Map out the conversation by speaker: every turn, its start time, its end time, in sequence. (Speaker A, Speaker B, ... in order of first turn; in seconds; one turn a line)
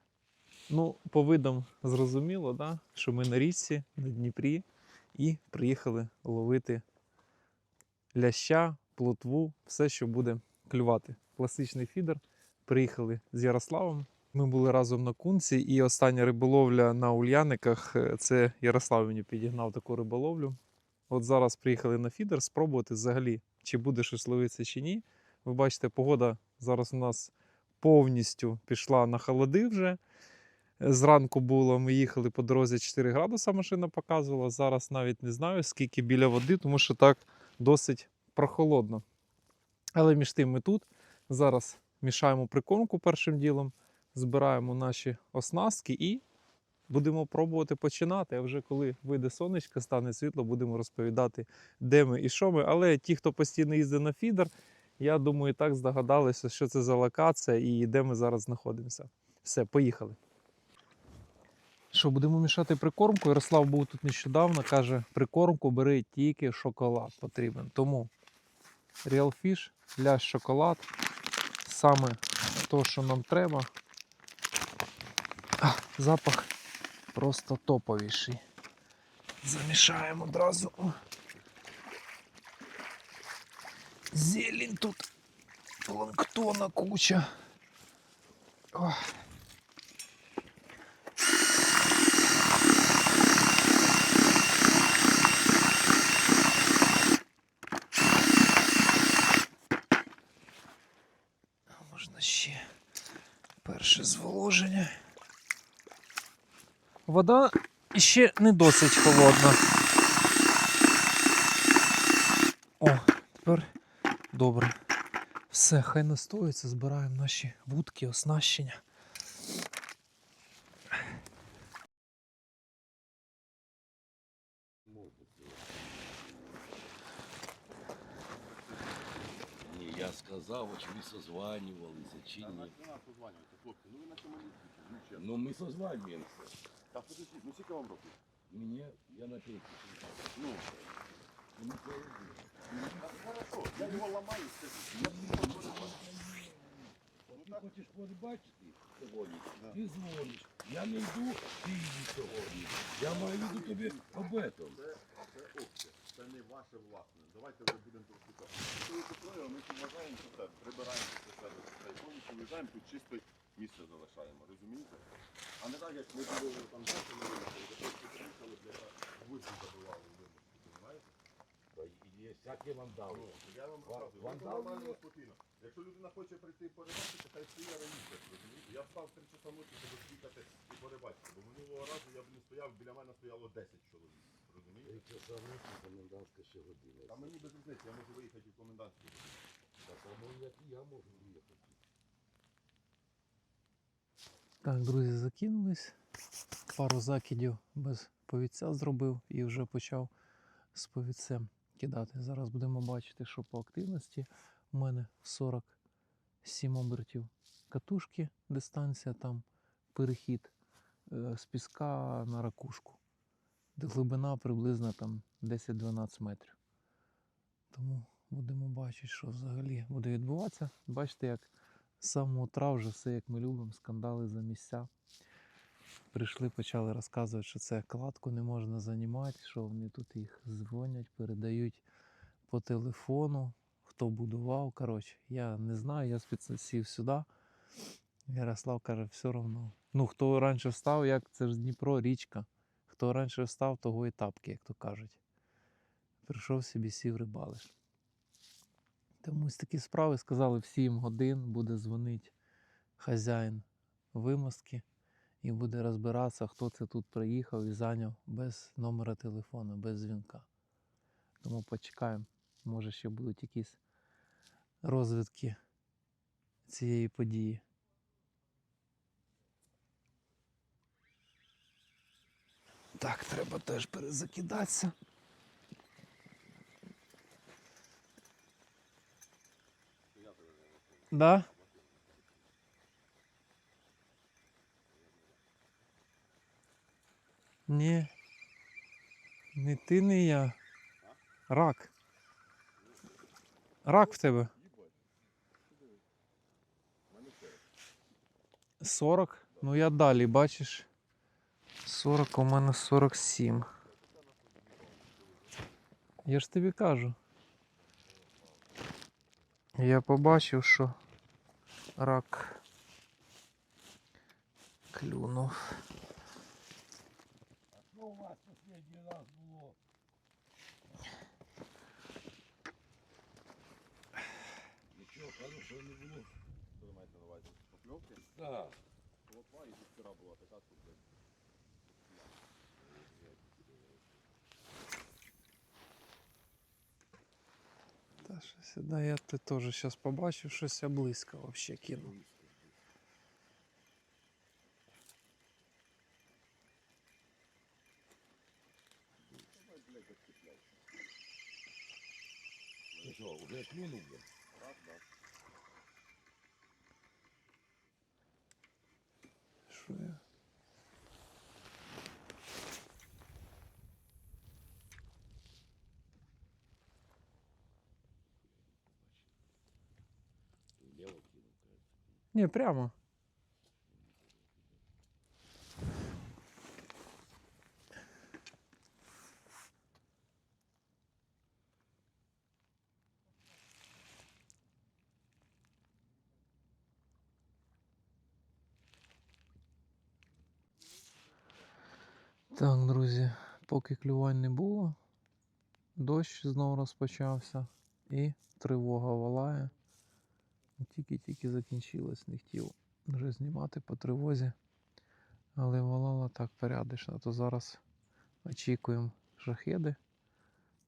Speaker A: 0.7-6.8
Speaker A: 8.1-20.6
Speaker A: 21.1-30.0
Speaker A: 30.8-39.0
Speaker A: 40.0-46.2
Speaker A: 46.9-60.2
Speaker A: 61.9-68.1
Speaker A: 69.0-70.9
Speaker A: 71.6-73.7
Speaker A: 75.6-76.5
Speaker A: 77.1-78.4
Speaker A: 79.4-81.0
Speaker A: 84.1-85.0
Speaker A: 85.8-87.3
Speaker A: 88.7-89.1
Speaker A: 101.7-102.6
Speaker A: 103.6-105.0
Speaker A: 107.1-109.6
Speaker A: 112.8-113.7
Speaker A: 114.3-114.8
Speaker A: 115.5-118.8
Speaker B: 124.9-125.6
Speaker C: 128.7-128.9
Speaker B: 129.6-132.7
Speaker C: 132.4-135.2
Speaker B: 135.1-136.6
Speaker C: 136.9-138.2
Speaker B: 138.5-140.2
Speaker C: 140.3-140.8
Speaker B: 141.5-143.1
Speaker C: 142.7-146.0
Speaker B: 143.8-144.1
Speaker B: 144.9-154.8
Speaker C: 147.3-147.7
Speaker C: 152.5-165.1
Speaker C: 165.6-171.1
Speaker B: 171.7-175.0
Speaker C: 173.1-185.0
Speaker B: 184.8-187.2
Speaker C: 187.1-189.4
Speaker B: 189.8-191.8
Speaker A: 194.6-195.9
Speaker A: 196.7-200.1
Speaker A: 200.7-205.8
Speaker A: 206.4-210.5
Speaker A: 211.1-213.0
Speaker A: 213.8-216.6
Speaker A: 217.7-221.5
Speaker A: 222.0-224.9
Speaker A: 226.1-231.8
Speaker A: 232.5-237.3
Speaker A: 238.3-245.2
Speaker A: 246.2-247.7
Speaker A: 249.2-252.3
Speaker A: 253.0-254.8
Speaker A: 255.4-260.5
Speaker A: 261.4-263.8
Speaker A: 264.8-265.6
Speaker A: 266.7-267.6
Speaker A: 273.0-274.9
Speaker C: 280.1-282.5
Speaker A: 281.1-281.5
Speaker C: 284.9-285.4
Speaker A: 287.7-288.1
Speaker A: 289.6-290.6
Speaker A: 291.5-291.9
Speaker A: 293.8-294.5
Speaker C: 294.6-294.9
Speaker B: 297.1-297.6
Speaker A: 298.8-300.9
Speaker C: 299.5-299.8
Speaker A: 301.8-303.7
Speaker C: 303.8-305.7
Speaker A: 306.2-307.2
Speaker C: 307.9-309.0
Speaker A: 309.8-310.9
Speaker A: 312.0-312.6
Speaker A: 314.9-315.8
Speaker B: 317.7-319.8
Speaker B: 324.9-326.3
Speaker C: 326.7-328.2
Speaker B: 328.3-328.8
Speaker C: 329.2-331.1
Speaker B: 332.9-333.9
Speaker A: 338.2-342.1
Speaker B: 341.9-342.7
Speaker C: 349.5-350.7
Speaker C: 352.9-353.2
Speaker B: 353.0-354.2
Speaker C: 354.5-355.0
Speaker A: 359.7-360.2
Speaker B: 368.7-369.3
Speaker B: 370.8-372.0
Speaker A: 372.3-372.9
Speaker B: 373.9-374.4
Speaker A: 392.5-395.0
Speaker A: 395.9-399.7
Speaker A: 400.8-404.5
Speaker A: 405.6-407.8
Speaker A: 408.4-410.0